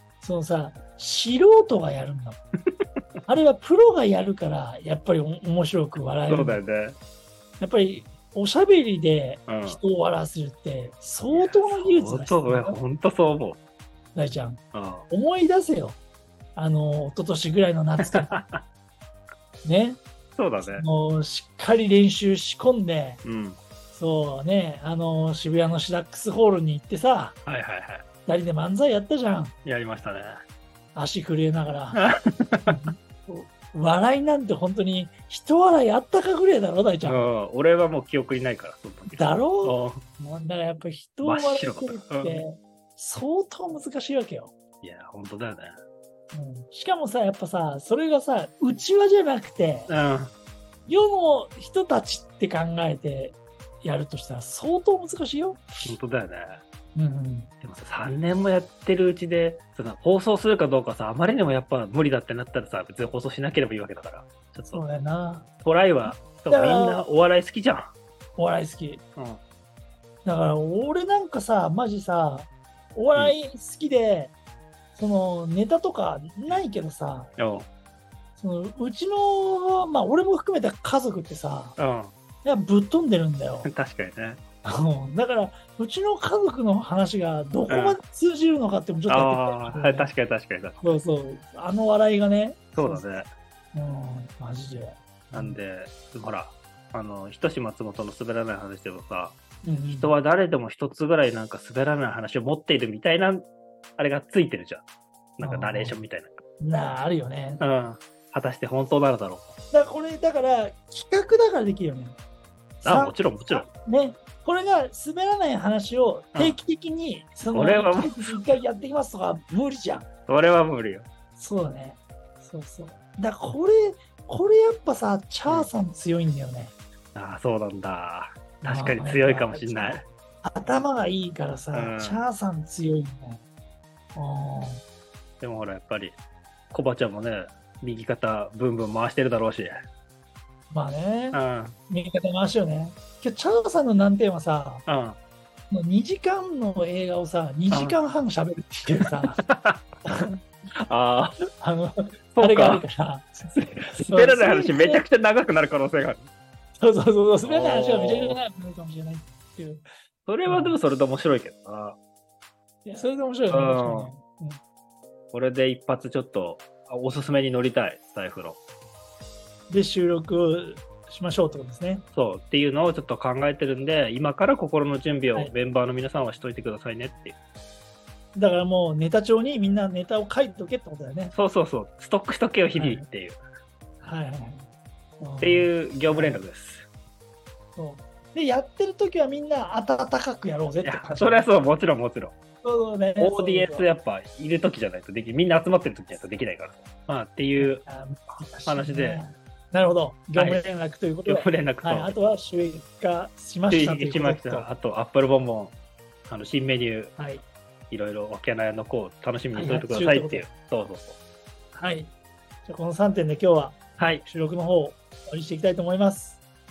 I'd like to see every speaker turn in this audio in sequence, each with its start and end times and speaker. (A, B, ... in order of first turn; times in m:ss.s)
0:00.2-0:02.4 A
0:03.3-0:06.6 A
0:06.3-0:07.0 B
0:07.6-0:12.8 A
0:09.5-0:09.8 B
0:11.3-0:13.6 B
0:14.1-0:16.0 A
0:14.7-0:15.1 B
0:16.6-0:18.4 A
0:18.0-0:18.6 B
0:19.6-0:20.0 A
0:20.4-0:20.8 B
0:20.6-0:23.2 A
0:23.2-0:23.6 B
0:23.9-0:27.4 A
0:27.4-0:28.0 B
0:28.2-0:29.5 A
0:29.6-0:30.4 B
0:30.9-0:32.0 A
0:31.9-0:32.8 B
0:32.7-0:37.3 A
0:37.0-0:40.0 B
0:39.1-0:44.5 A
0:41.2-0:42.4 B
0:44.8-0:45.8 B
0:46.3-0:49.9 A
0:49.9-0:50.3 B
0:50.9-0:55.9 A
0:55.8-0:56.6 B
0:57.0-0:57.5 A
0:57.6-1:04.8 B
1:04.7-1:05.5 A
1:05.6-1:07.9 B
1:06.0-1:07.0 A
1:08.4-1:09.0 A
1:10.2-1:14.3 A
1:14.9-1:17.3 A
1:17.4-1:17.7 B
1:18.4-1:21.8 A
1:21.8-1:22.1 B
1:22.4-1:23.7 A
1:23.6-1:24.4 B
1:24.6-1:30.1 A
1:27.7-1:28.0 B
1:29.1-1:30.8 B
1:30.8-1:33.2 A
1:32.7-1:33.3 B
1:33.7-1:35.6 A
1:35.3-1:39.4 B
1:39.6-1:40.1 A
1:39.9-1:44.8 B
1:45.4-1:46.4 B
1:45.4-1:46.0 A
1:46.6-1:47.6 A
1:47.6-1:49.5 B
1:49.7-1:52.2 A
1:52.8-2:00.0 A
1:52.8-1:53.7 B
1:57.5-1:58.4 B
2:00.3-2:01.0 B
2:01.4-2:06.7 A
2:07.1-2:10.0 B
2:08.6-2:13.4 A
2:11.7-2:12.2 B
2:14.1-2:14.8 A
2:15.4-2:16.2 B
2:16.7-2:19.8 B
2:20.7-2:24.8 A
2:21.3-2:21.8 B
2:24.8-2:25.2 B
2:25.7-2:29.4 A
2:27.7-2:28.0 B
2:29.0-2:29.8 B
2:30.0-2:30.4 A
2:30.8-2:31.4 B
2:31.6-2:35.0 A
2:32.3-2:32.8 B
2:33.6-2:36.3 B
2:36.8-2:39.8 A
2:37.4-2:38.4 B
2:40.3-2:42.0 B
2:40.4-2:40.8 A
2:42.8-2:44.6 A
2:43.5-2:44.1 B
2:45.3-2:48.6 B
2:49.7-2:52.0 A
2:52.1-2:57.4 B
2:58.4-3:01.3 A
3:01.3-3:03.4 B
3:02.8-3:03.0 A
3:04.0-3:04.7 A
3:05.2-3:06.4 A
3:05.4-3:06.9 B
3:07.8-3:11.5 A
3:10.8-3:12.3 B
3:12.6-3:13.9 A
3:13.2-3:17.8 B
3:17.6-3:24.7 A
3:18.6-3:19.2 B
3:20.4-3:20.6 B
3:21.2-3:22.1 B
3:23.7-3:25.7 B
3:26.3-3:27.1 B
3:27.2-3:27.4 A
3:27.9-3:31.2 B
3:29.5-3:30.4 A
3:31.7-3:32.1 A
3:32.6-3:36.4 A
3:34.0-3:34.2 B